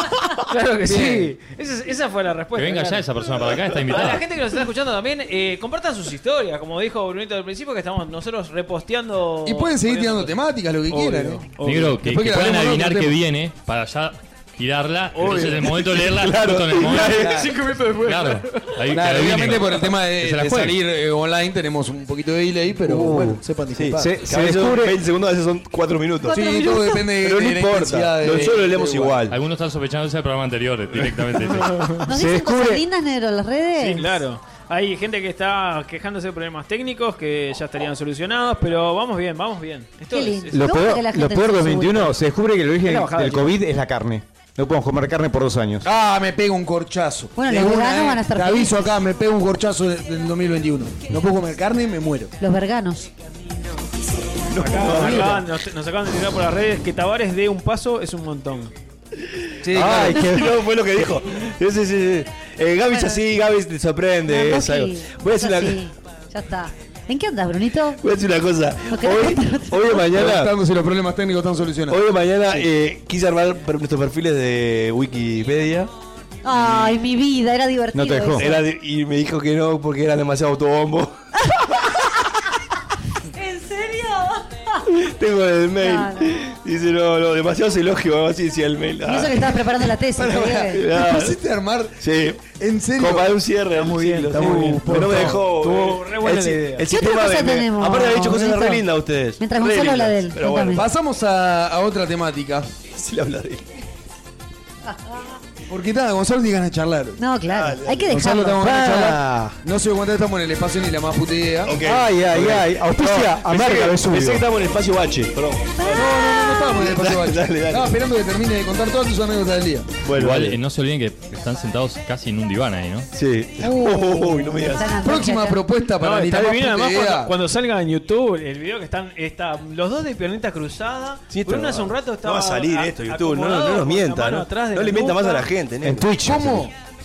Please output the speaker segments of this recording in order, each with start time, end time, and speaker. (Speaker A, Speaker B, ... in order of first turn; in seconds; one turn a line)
Speaker A: 0.5-3.1
Speaker B: 0.9-1.3
Speaker C: 2.5-4.3
Speaker A: 3.9-10.3
Speaker B: 9.4-13.2
Speaker A: 10.9-12.0
Speaker C: 11.6-17.3
Speaker D: 15.2-17.5
Speaker B: 16.8-18.1
Speaker A: 17.2-18.7
Speaker C: 18.0-20.8
Speaker B: 18.9-24.2
Speaker E: 22.9-23.4
Speaker D: 23.7-26.6
Speaker E: 24.0-25.0
Speaker F: 26.3-27.0
Speaker B: 26.3-29.3
Speaker D: 27.2-29.4
Speaker C: 29.3-31.9
Speaker A: 31.5-32.1
Speaker E: 32.1-32.8
Speaker F: 32.1-34.2
Speaker A: 33.8-40.7
Speaker F: 40.1-42.1
Speaker E: 40.5-45.9
Speaker A: 42.9-43.6
Speaker B: 45.8-52.3
Speaker F: 47.4-48.9
Speaker F: 52.4-53.1
Speaker D: 54.5-55.5
Speaker A: 54.6-58.7
Speaker D: 59.7-65.8
Speaker B: 59.7-60.2
Speaker F: 60.1-60.5
Speaker F: 62.9-63.2
Speaker F: 64.3-68.0
Speaker D: 68.0-70.5
Speaker F: 68.9-70.0
Speaker B: 70.0-72.6
Speaker D: 71.9-75.9
Speaker F: 76.4-78.6
Speaker E: 77.9-78.5
Speaker D: 78.3-81.1
Speaker F: 83.4-84.4
Speaker D: 84.9-89.7
Speaker F: 85.8-86.4
Speaker F: 89.0-90.9
Speaker D: 90.2-91.4
Speaker B: 90.3-93.3
Speaker D: 92.0-100.8
Speaker A: 93.8-94.9
Speaker B: 94.3-95.5
Speaker A: 95.5-96.9
Speaker F: 96.9-98.8
Speaker F: 99.4-100.8
Speaker B: 100.7-102.7
Speaker D: 102.9-103.6
Speaker B: 105.7-107.2
Speaker F: 107.2-108.6
Speaker D: 107.5-108.1
Speaker B: 108.1-111.7
Speaker E: 108.6-109.6
Speaker D: 111.6-118.0
Speaker E: 111.8-114.5
Speaker F: 115.8-116.7
Speaker B: 116.0-119.9
Speaker D: 120.0-120.6
Speaker C: 120.1-123.1
Speaker D: 123.1-125.0
Speaker F: 123.6-125.6
Speaker B: 125.0-127.3
Speaker A: 126.0-135.5
Speaker D: 131.3-136.1
Speaker E: 135.8-136.7
Speaker B: 136.1-136.7